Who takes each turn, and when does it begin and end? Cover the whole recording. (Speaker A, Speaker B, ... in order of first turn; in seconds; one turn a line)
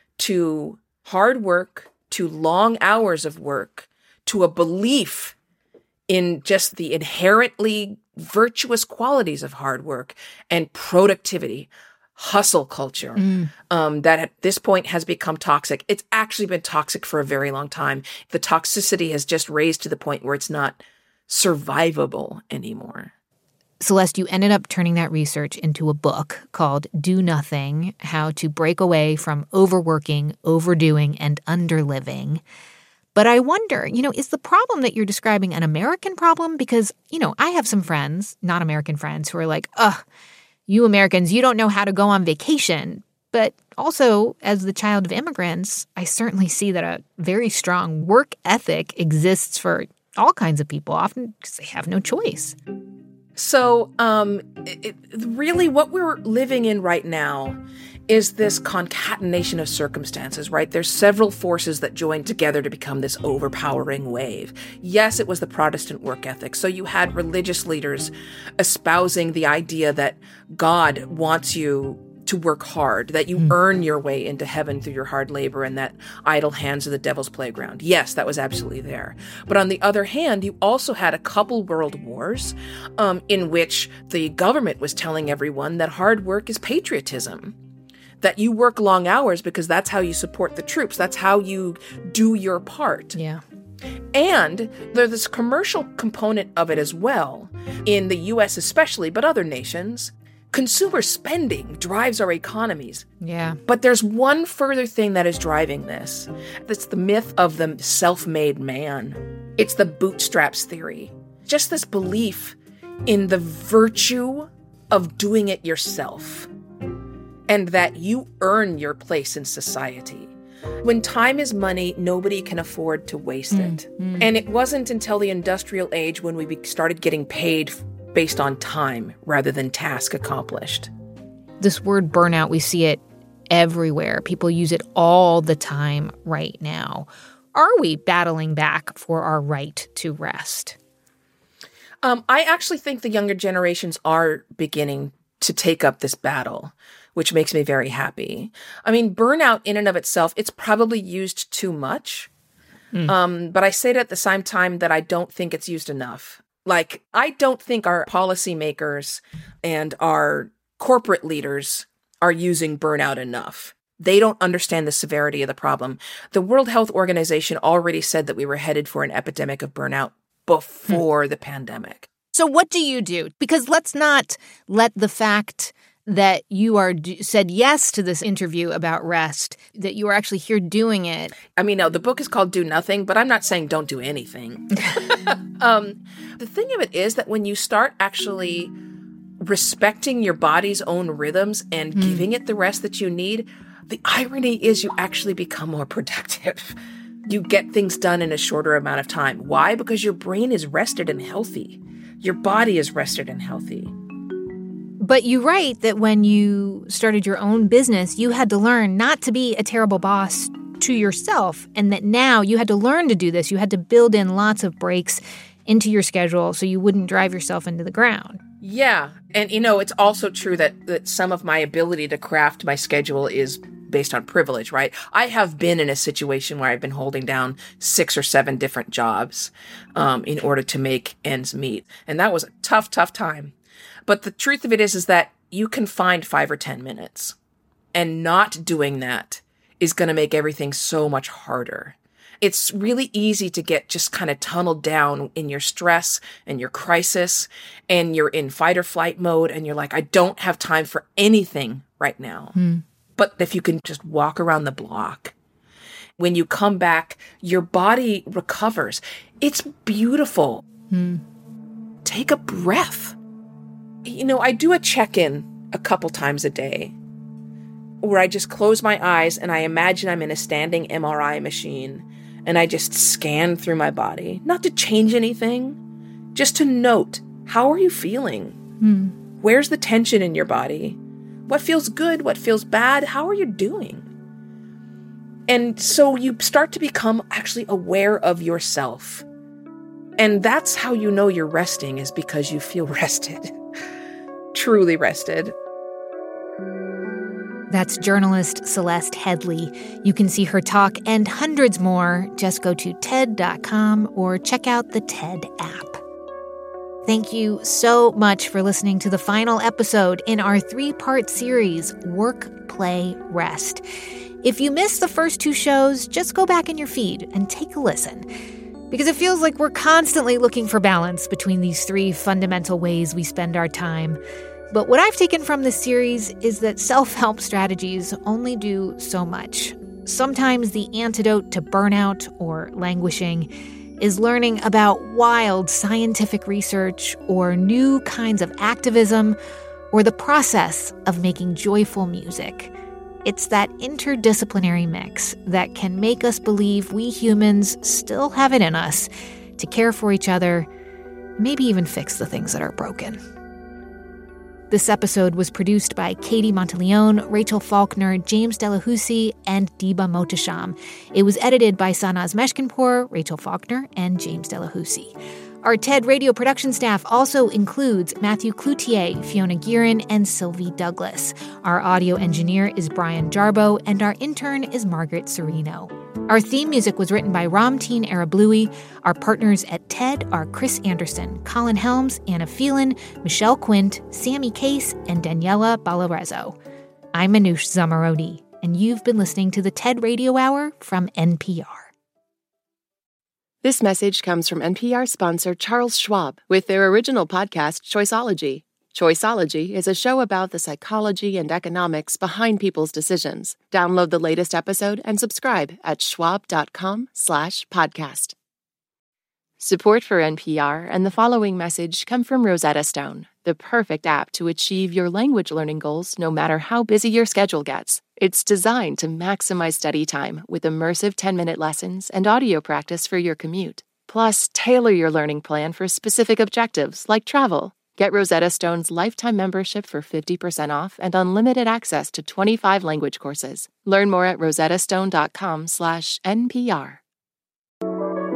Speaker A: 0.2-5.3
Speaker A: 6.1-23.1
Speaker B: 13.2-13.5
Speaker B: 23.8-32.4
Speaker B: 33.1-40.0
Speaker B: 40.7-52.6
Speaker A: 53.4-87.5
Speaker A: 88.2-93.2
Speaker B: 93.2-93.4
Speaker A: 94.1-103.1
Speaker B: 103.2-103.6
Speaker A: 103.7-112.5
Speaker A: 113.1-116.5
Speaker A: 117.5-130.9
Speaker B: 123.5-124.3
Speaker B: 131.6-140.8
Speaker A: 142.0-152.3
Speaker A: 153.1-172.1
Speaker B: 172.3-181.3
Speaker A: 181.6-188.7
Speaker A: 189.4-196.7
Speaker B: 192.0-192.3
Speaker A: 197.3-203.9
Speaker B: 205.0-218.4
Speaker A: 218.6-233.5
Speaker A: 234.1-237.3
Speaker A: 237.9-252.6
Speaker B: 252.6-252.8
Speaker A: 253.2-255.3
Speaker A: 256.2-260.6
Speaker B: 260.9-261.2
Speaker A: 262.1-263.1
Speaker A: 264.1-266.9
Speaker A: 268.0-275.8
Speaker A: 276.4-278.6
Speaker B: 278.8-279.1
Speaker A: 279.4-284.1
Speaker A: 285.5-289.2
Speaker A: 290.2-293.5
Speaker A: 294.5-295.6
Speaker B: 297.7-306.0
Speaker B: 307.1-313.8
Speaker B: 314.4-318.3
Speaker B: 318.9-324.2
Speaker B: 324.7-339.4
Speaker B: 339.9-342.7
Speaker B: 343.2-350.7
Speaker B: 351.4-353.2
Speaker B: 354.7-386.6
Speaker B: 387.1-391.9
Speaker C: 393.6-408.4
Speaker C: 409.6-437.0